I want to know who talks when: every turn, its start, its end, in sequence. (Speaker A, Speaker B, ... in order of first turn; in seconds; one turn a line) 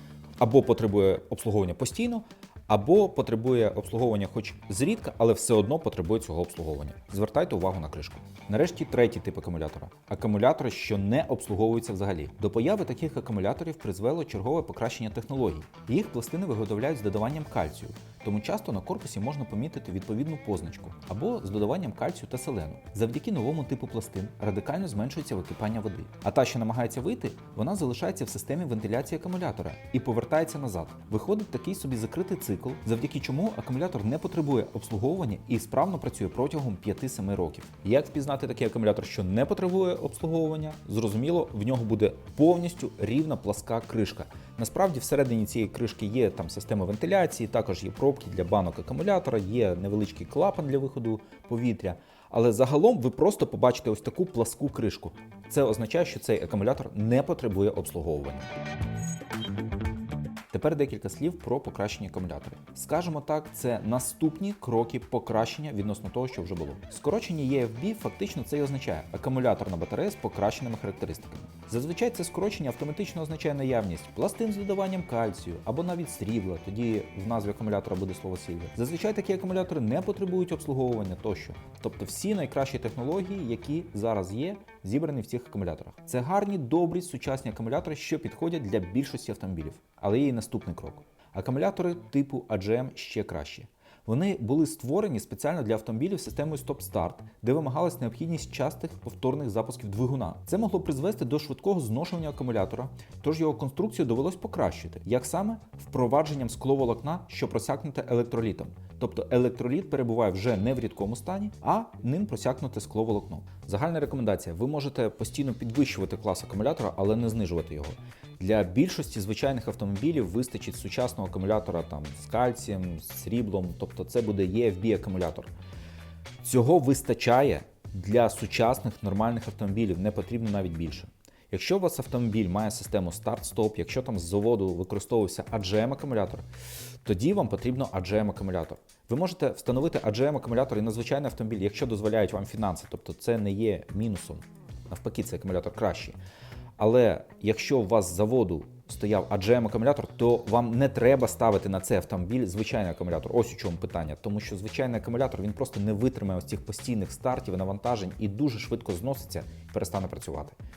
Speaker A: 0.4-58.5
Speaker A: 60.5-125.5
Speaker A: 126.4-136.5
Speaker A: 137.0-146.2
Speaker A: 146.8-160.6